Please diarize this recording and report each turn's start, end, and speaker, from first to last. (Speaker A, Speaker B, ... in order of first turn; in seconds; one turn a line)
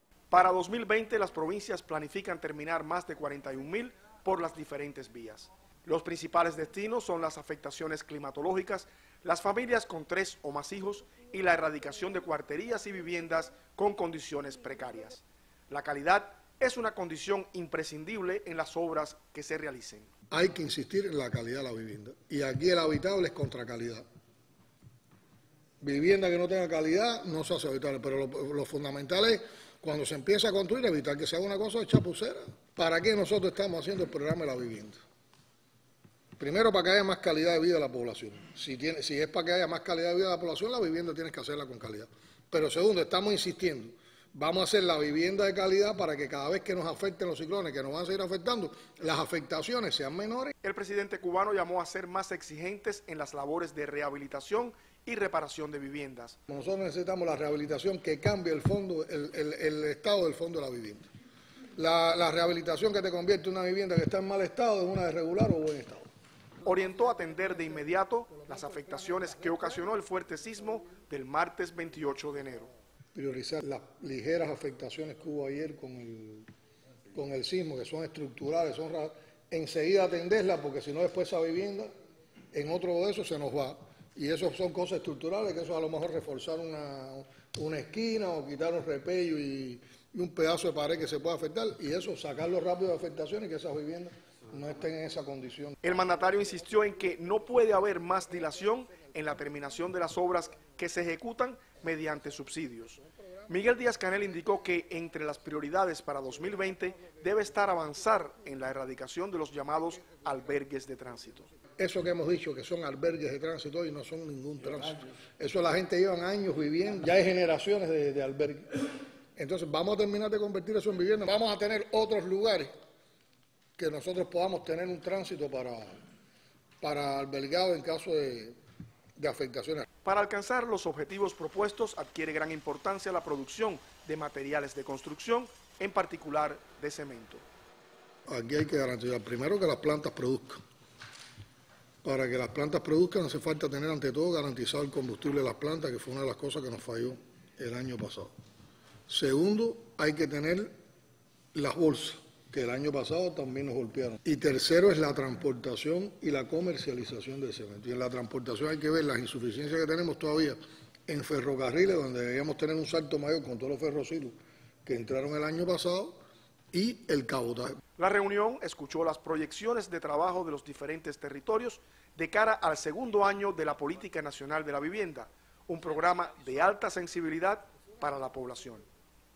Speaker A: 0.3-20.1
Speaker B: 20.3-24.0
Speaker B: 25.8-35.0
Speaker B: 36.4-50.5
Speaker A: 50.6-56.4
Speaker B: 56.5-61.1
Speaker B: 61.8-66.1
Speaker A: 66.6-72.7
Speaker B: 73.2-76.5
Speaker B: 77.1-81.9
Speaker B: 82.5-95.8
Speaker A: 95.8-111.5
Speaker B: 111.8-118.8
Speaker B: 119.4-122.7
Speaker B: 123.8-126.0
Speaker B: 126.8-128.6
Speaker B: 129.2-129.8
Speaker A: 130.0-137.4
Speaker B: 138.3-140.6
Speaker B: 142.0-148.3
Speaker B: 149.1-150.7
Speaker B: 151.5-166.2
Speaker B: 166.7-167.8
Speaker A: 168.0-178.8